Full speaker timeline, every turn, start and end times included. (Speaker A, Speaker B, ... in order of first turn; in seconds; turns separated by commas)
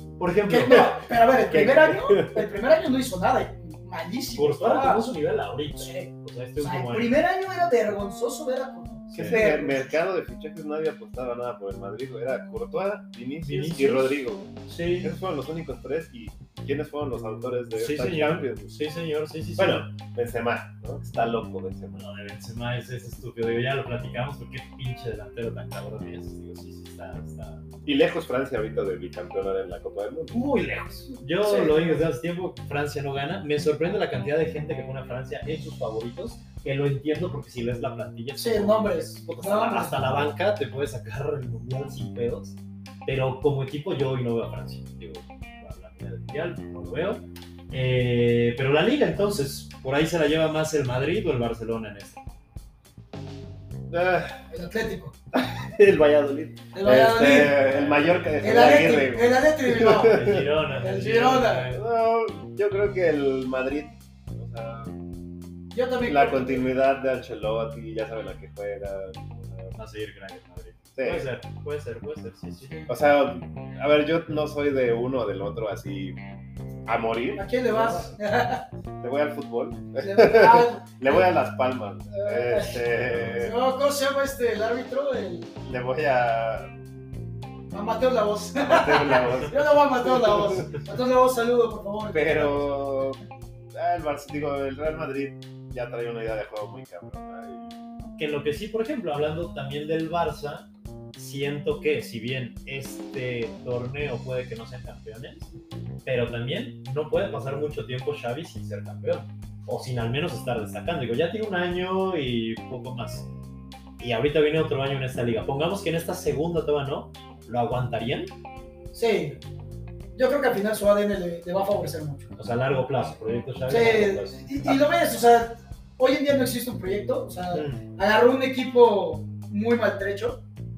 Speaker A: 0.2-0.9, Speaker B: 0.5-5.1, Speaker C: 1.5-2.5, Speaker A: 4.3-7.1, Speaker B: 5.8-9.9, Speaker A: 9.1-9.4, Speaker C: 9.2-18.7, Speaker A: 13.4-15.1, Speaker A: 17.7-19.9, Speaker C: 19.6-22.0, Speaker A: 21.9-27.6, Speaker C: 27.8-30.4, Speaker A: 30.3-52.2, Speaker B: 31.4-32.0, Speaker B: 38.4-40.3, Speaker C: 53.9-54.4, Speaker B: 54.5-55.1, Speaker C: 55.3-60.4, Speaker B: 56.7-57.6, Speaker A: 57.6-58.5, Speaker B: 58.4-61.7, Speaker A: 60.0-61.8, Speaker C: 61.7-65.0, Speaker B: 65.7-66.7, Speaker C: 66.0-69.7, Speaker A: 69.7-72.9, Speaker C: 71.0-71.3, Speaker C: 72.9-76.2, Speaker C: 76.8-77.5, Speaker B: 77.3-78.6, Speaker A: 77.7-78.1, Speaker C: 79.0-83.6, Speaker B: 80.0-81.3, Speaker B: 82.1-85.6, Speaker C: 85.6-86.7, Speaker B: 87.7-93.0, Speaker C: 88.6-90.7, Speaker C: 92.1-93.2, Speaker C: 93.7-97.7, Speaker A: 98.2-105.5, Speaker A: 106.0-113.3, Speaker A: 114.0-118.3, Speaker B: 118.9-119.4, Speaker B: 120.1-122.3, Speaker A: 122.4-124.8, Speaker B: 123.7-130.4, Speaker A: 127.5-127.8